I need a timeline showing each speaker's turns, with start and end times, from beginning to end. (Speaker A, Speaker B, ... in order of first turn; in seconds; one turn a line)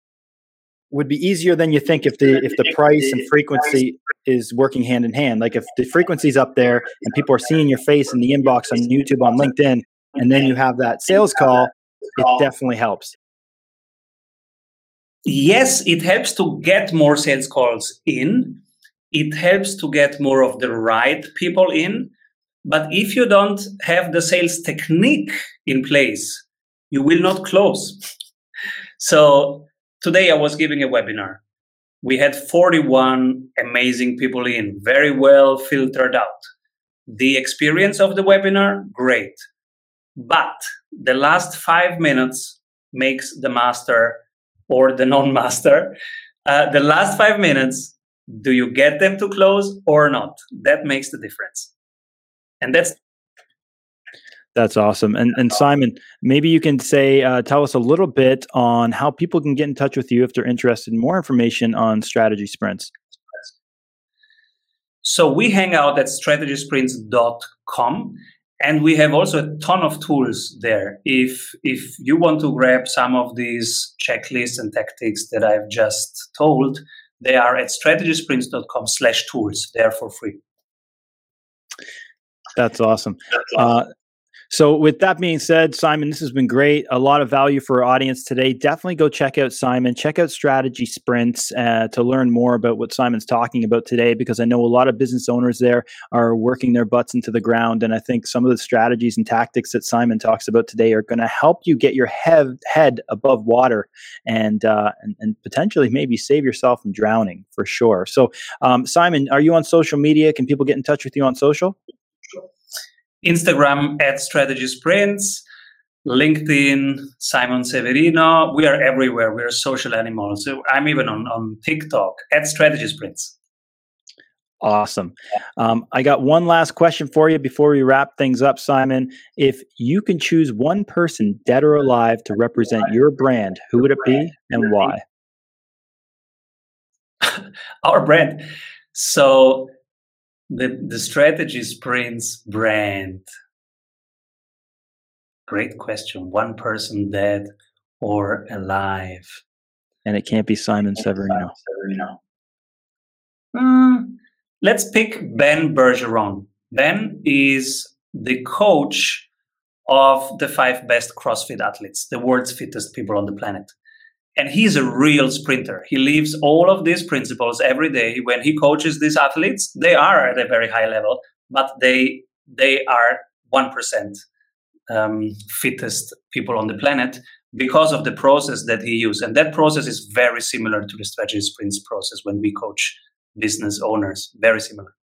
Speaker A: 0.9-13.2
Speaker B: 15.2-18.6
Speaker B: 19.1-22.1
Speaker B: 22.6-28.1
Speaker B: 29.0-31.4
Speaker B: 32.0-36.5
Speaker B: 37.1-39.4
Speaker B: 40.1-45.9
Speaker B: 46.5-51.7
Speaker B: 52.6-53.0
Speaker A: 54.5-62.9
Speaker B: 65.0-80.4
Speaker A: 82.5-83.8
Speaker A: 84.5-111.8
Speaker B: 113.2-115.4
Speaker B: 116.0-123.3
Speaker A: 124.6-135.0
Speaker B: 137.2-139.7
Speaker B: 140.5-143.2
Speaker B: 145.5-149.4
Speaker A: 150.0-152.0
Speaker B: 153.5-159.3
Speaker B: 159.9-163.7
Speaker B: 164.3-174.2
Speaker B: 174.9-184.9